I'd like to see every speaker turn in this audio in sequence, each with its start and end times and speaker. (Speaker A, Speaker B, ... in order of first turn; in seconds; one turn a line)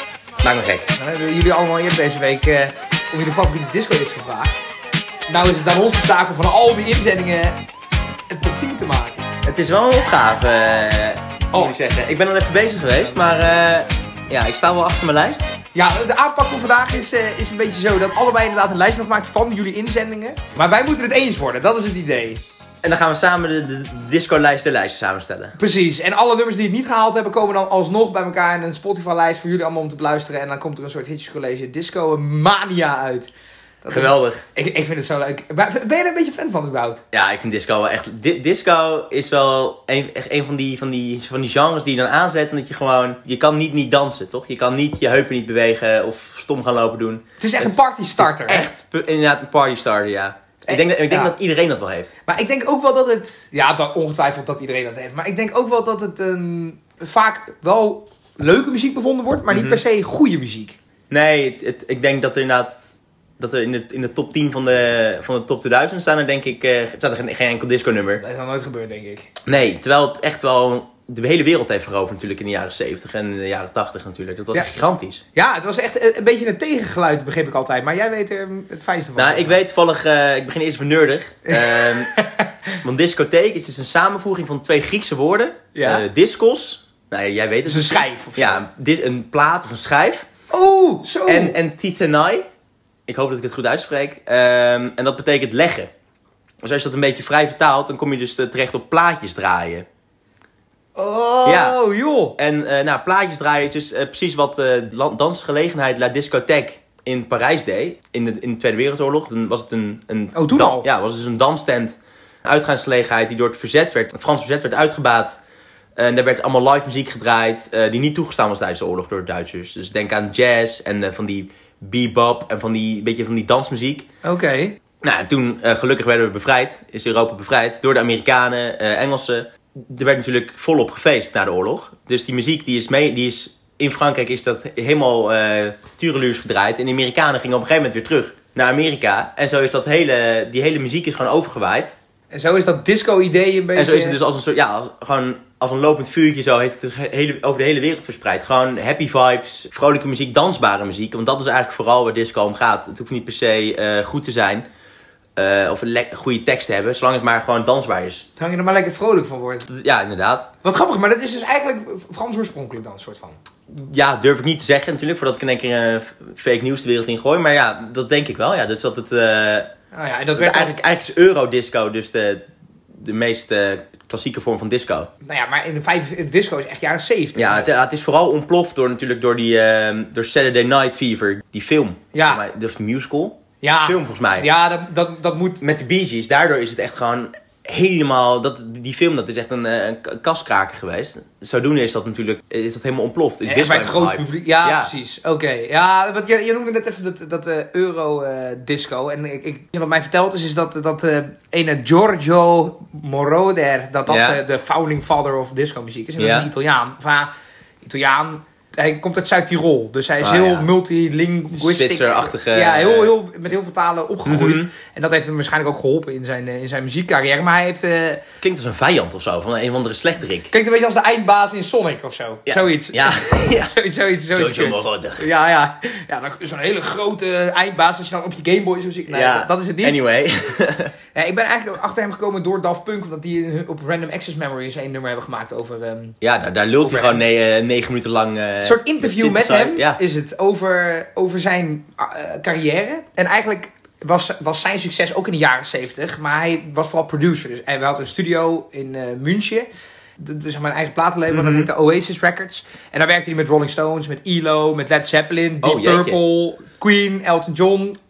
Speaker A: 0.4-0.9
Speaker B: 0.9-4.5
Speaker B: 5.3-7.5
Speaker B: 8.3-9.3
Speaker A: 9.4-15.6
Speaker B: 15.7-22.4
Speaker A: 22.8-25.5
Speaker B: 25.6-33.3
Speaker B: 33.8-37.0
Speaker A: 33.9-34.4
Speaker A: 37.1-52.1
Speaker B: 47.4-48.7
Speaker B: 50.6-51.3
Speaker B: 52.3-60.8
Speaker A: 59.5-59.8
Speaker A: 61.1-62.8
Speaker A: 63.4-68.2
Speaker B: 68.2-69.3
Speaker A: 69.5-75.2
Speaker B: 75.3-79.6
Speaker A: 79.2-82.1
Speaker B: 81.5-82.7
Speaker A: 82.8-90.3
Speaker B: 85.7-86.0
Speaker B: 87.7-88.6
Speaker B: 90.5-91.5
Speaker A: 91.2-92.5
Speaker A: 93.1-95.9
Speaker A: 96.6-99.9
Speaker B: 101.0-102.3
Speaker A: 101.4-101.8
Speaker A: 102.3-115.4
Speaker B: 110.3-110.9
Speaker A: 116.0-124.0
Speaker B: 124.2-124.8
Speaker A: 125.0-141.9
Speaker B: 142.3-144.2
Speaker A: 143.7-154.7
Speaker A: 155.3-158.2
Speaker B: 158.4-159.7
Speaker A: 159.7-160.5
Speaker B: 160.6-163.4
Speaker A: 163.7-169.7
Speaker B: 169.9-170.8
Speaker A: 170.3-175.1
Speaker B: 175.2-177.7
Speaker A: 177.3-184.5
Speaker B: 182.1-182.4
Speaker B: 183.6-185.6
Speaker A: 185.6-194.9
Speaker B: 193.4-207.3
Speaker A: 204.1-204.4
Speaker A: 206.2-206.5
Speaker B: 207.8-218.2
Speaker A: 210.2-210.7
Speaker A: 211.5-213.1
Speaker A: 214.2-214.7
Speaker A: 218.4-220.5
Speaker B: 220.5-230.0
Speaker A: 222.4-223.7
Speaker A: 224.3-225.2
Speaker A: 229.1-230.9
Speaker B: 231.1-236.2
Speaker A: 236.2-240.0
Speaker B: 236.8-237.2
Speaker B: 238.6-249.7
Speaker B: 250.2-258.0
Speaker A: 251.3-251.7
Speaker A: 255.6-256.2